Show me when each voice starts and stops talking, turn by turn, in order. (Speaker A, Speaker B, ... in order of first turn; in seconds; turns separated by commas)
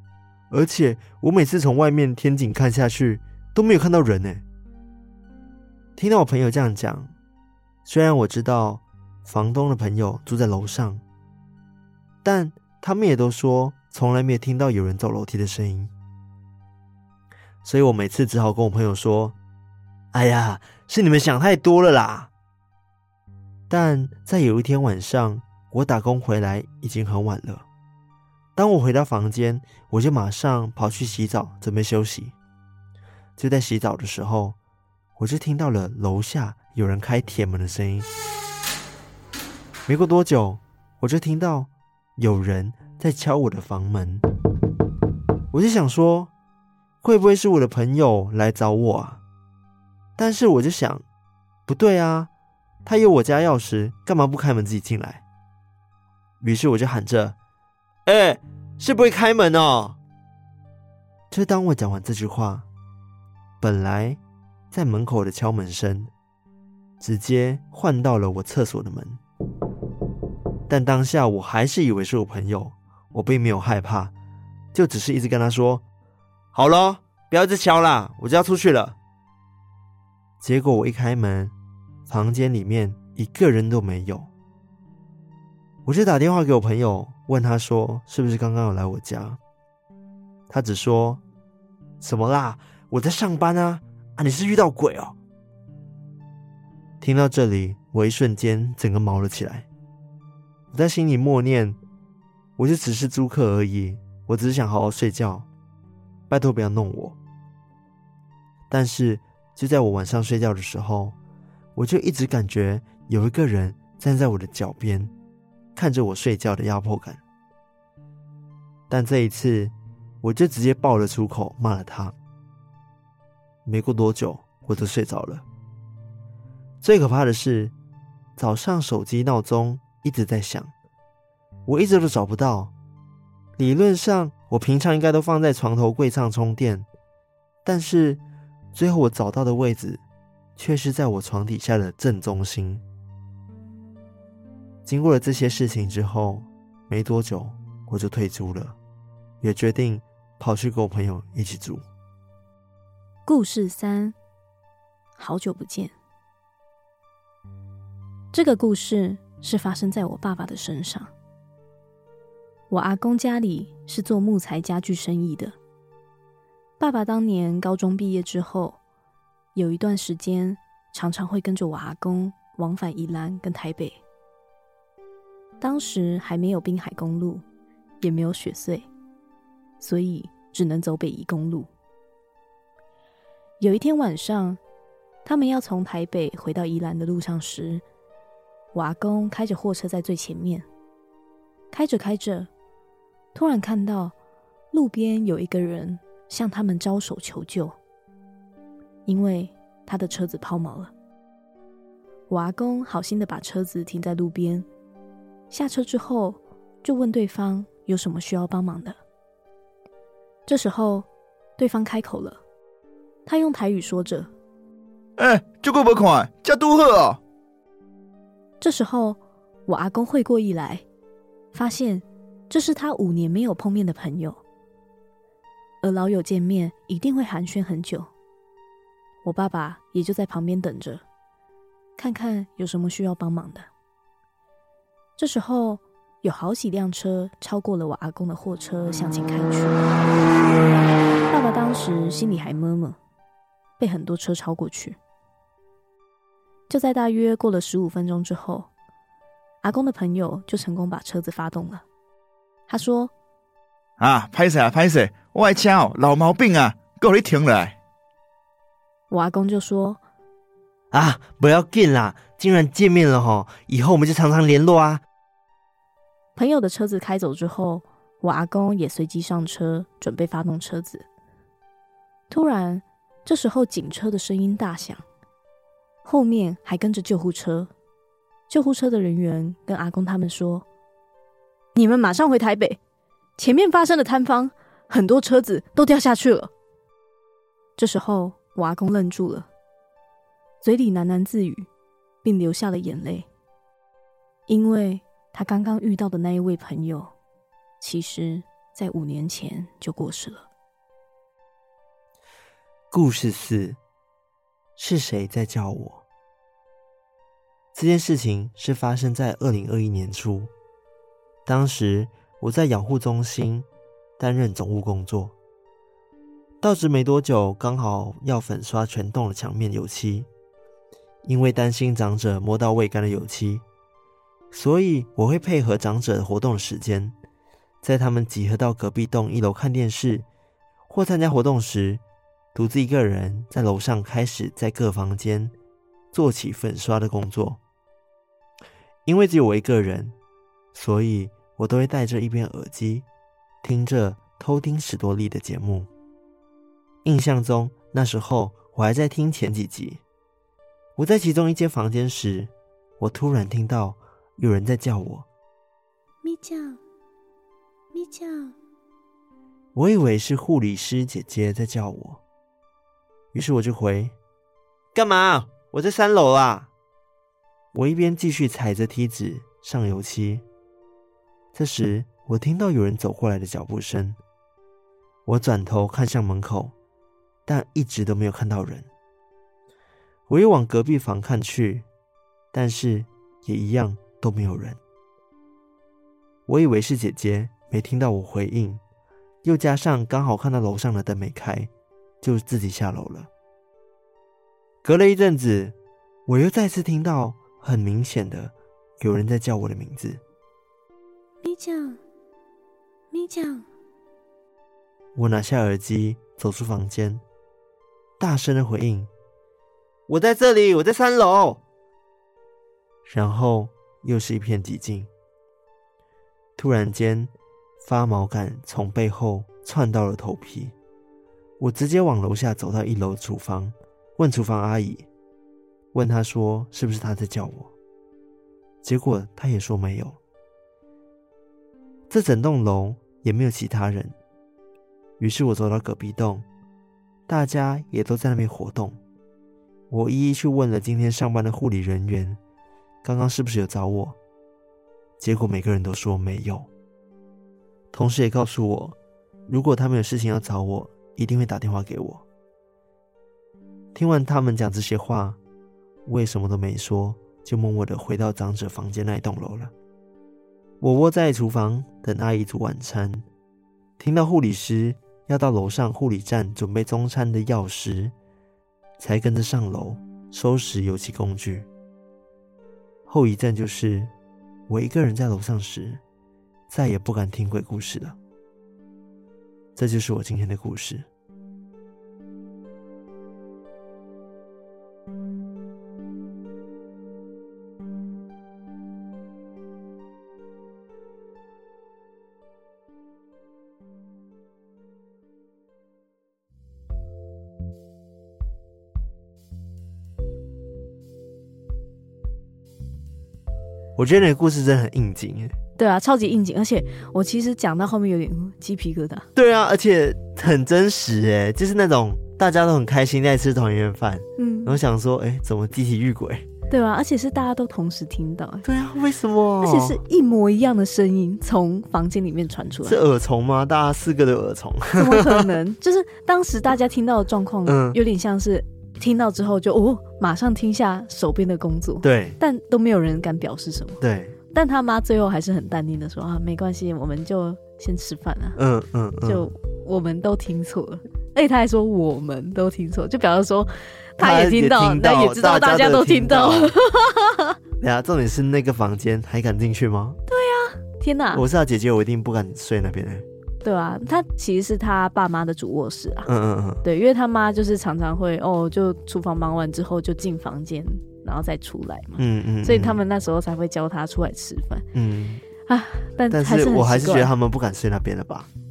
Speaker A: 0.5-4.4, Speaker A: 6.0-7.1, Speaker A: 7.8-11.0, Speaker A: 12.2-15.9, Speaker A: 17.6-19.4, Speaker A: 20.1-22.3, Speaker A: 23.7-27.6, Speaker A: 28.6-32.3, Speaker A: 33.4-34.6, Speaker A: 35.2-38.1, Speaker A: 39.9-44.2, Speaker A: 45.5-46.3, Speaker A: 47.0-49.2, Speaker A: 50.2-51.0, Speaker A: 51.7-52.3, Speaker A: 52.8-55.2, Speaker A: 56.4-57.4, Speaker A: 58.0-60.0, Speaker A: 61.3-62.6, Speaker A: 63.6-64.2, Speaker A: 64.7-66.1, Speaker A: 67.0-69.2, Speaker A: 70.7-74.1, Speaker A: 74.7-75.8, Speaker A: 76.5-79.0, Speaker A: 80.4-81.5, Speaker A: 82.1-84.3, Speaker A: 85.8-89.4, Speaker A: 90.5-91.2, Speaker A: 92.0-95.2, Speaker A: 97.0-99.7, Speaker A: 100.7-101.8, Speaker A: 102.6-105.5, Speaker A: 106.3-107.2, Speaker A: 108.7-111.2, Speaker A: 111.8-115.1, Speaker A: 115.8-117.2, Speaker A: 118.9-122.1, Speaker A: 123.7-125.4, Speaker A: 126.8-127.7, Speaker A: 128.4-130.7, Speaker A: 131.7-132.7, Speaker A: 133.6-136.9, Speaker A: 137.6-138.2, Speaker A: 138.7-140.0, Speaker A: 140.6-142.8, Speaker A: 144.8-148.8, Speaker A: 149.4-151.8, Speaker B: 153.2-154.1, Speaker B: 155.2-155.9, Speaker B: 158.3-161.1, Speaker B: 162.7-165.5, Speaker B: 166.8-168.8, Speaker B: 169.5-174.0, Speaker B: 175.6-177.4, Speaker B: 178.0-178.9, Speaker B: 179.8-181.7, Speaker B: 183.6-184.6, Speaker B: 185.2-187.8, Speaker B: 188.7-190.7, Speaker B: 191.7-192.5, Speaker B: 193.3-194.1, Speaker B: 194.7-197.7, Speaker B: 199.1-200.9, Speaker B: 202.3-204.7, Speaker B: 205.5-209.0, Speaker B: 210.5-211.1, Speaker B: 211.6-212.4, Speaker B: 213.2-214.3, Speaker C: 215.2-217.2, Speaker B: 218.6-220.8, Speaker B: 221.5-224.4, Speaker B: 225.8-228.1, Speaker B: 229.2-231.0, Speaker B: 232.0-233.7, Speaker B: 235.2-239.8, Speaker B: 241.3-243.0, Speaker B: 243.8-245.0, Speaker B: 246.7-248.7, Speaker B: 249.6-251.8, Speaker B: 252.7-253.1, Speaker C: 254.0-257.8, Speaker B: 259.1-260.0, Speaker A: 260.9-265.0, Speaker B: 266.4-271.1, Speaker B: 272.3-275.0, Speaker B: 276.0-277.7, Speaker B: 278.5-280.6, Speaker B: 281.7-282.8, Speaker B: 283.4-286.5, Speaker B: 287.8-289.5, Speaker B: 290.6-291.7, Speaker B: 292.2-293.2, Speaker B: 294.5-297.1, Speaker B: 297.8-300.5, Speaker A: 302.9-303.8, Speaker A: 304.8-306.0, Speaker A: 307.7-310.5, Speaker A: 311.4-313.7, Speaker A: 314.2-315.3, Speaker A: 316.6-320.3, Speaker A: 321.2-323.6, Speaker A: 324.5-327.1, Speaker A: 327.8-330.2, Speaker A: 330.9-332.0, Speaker A: 332.5-335.5, Speaker A: 336.1-337.6, Speaker A: 339.1-340.1, Speaker A: 340.7-343.1, Speaker A: 343.6-345.9, Speaker A: 347.0-350.0, Speaker A: 351.0-355.2, Speaker B: 356.2-356.8, Speaker B: 357.9-358.5, Speaker A: 359.7-362.2, Speaker A: 363.3-364.1, Speaker A: 364.9-366.7, Speaker A: 367.7-370.4, Speaker A: 371.5-374.2, Speaker A: 375.2-376.7, Speaker A: 377.5-378.9, Speaker A: 380.3-381.9, Speaker A: 382.5-384.8, Speaker A: 386.5-388.8, Speaker A: 389.4-391.7, Speaker A: 392.2-393.3, Speaker A: 394.8-395.7, Speaker A: 396.3-400.2, Speaker B: 401.4-402.0, Speaker B: 403.1-403.6, Speaker A: 405.1-407.2, Speaker A: 408.2-409.1, Speaker A: 410.1-411.6, Speaker A: 413.1-415.1, Speaker A: 416.6-420.7, Speaker A: 421.6-425.1, Speaker A: 425.9-427.7, Speaker A: 428.8-430.2, Speaker A: 432.1-434.1, Speaker A: 435.2-436.4, Speaker A: 437.3-439.0, Speaker A: 439.9-442.4, Speaker A: 443.0-444.2, Speaker A: 445.2-446.7, Speaker A: 447.9-448.9, Speaker A: 449.5-452.2, Speaker A: 453.9-455.4, Speaker A: 456.1-459.7, Speaker A: 460.8-463.2, Speaker A: 464.0-468.1, Speaker A: 469.0-471.7, Speaker A: 473.1-474.1, Speaker A: 474.7-476.0, Speaker A: 476.7-478.1, Speaker A: 479.8-481.1, Speaker A: 503.9-505.5, Speaker B: 505.8-509.3, Speaker A: 509.4-516.4, Speaker B: 514.4-514.8, Speaker B: 516.7-518.6, Speaker A: 518.6-520.0, Speaker B: 519.6-523.0, Speaker A: 522.8-525.5, Speaker B: 525.0-534.0, Speaker A: 527.6-528.0, Speaker A: 532.0-532.4, Speaker A: 534.0-534.4, Speaker B: 534.5-538.6, Speaker A: 538.5-539.5, Speaker B: 539.2-547.5, Speaker A: 544.2-546.8, Speaker A: 547.8-550.2, Speaker B: 550.3-551.4, Speaker A: 551.3-553.2, Speaker B: 553.6-556.3, Speaker A: 556.2-556.8, Speaker B: 556.8-564.8, Speaker A: 562.2-563.0, Speaker A: 564.9-565.4, Speaker B: 565.7-567.3, Speaker A: 566.3-568.5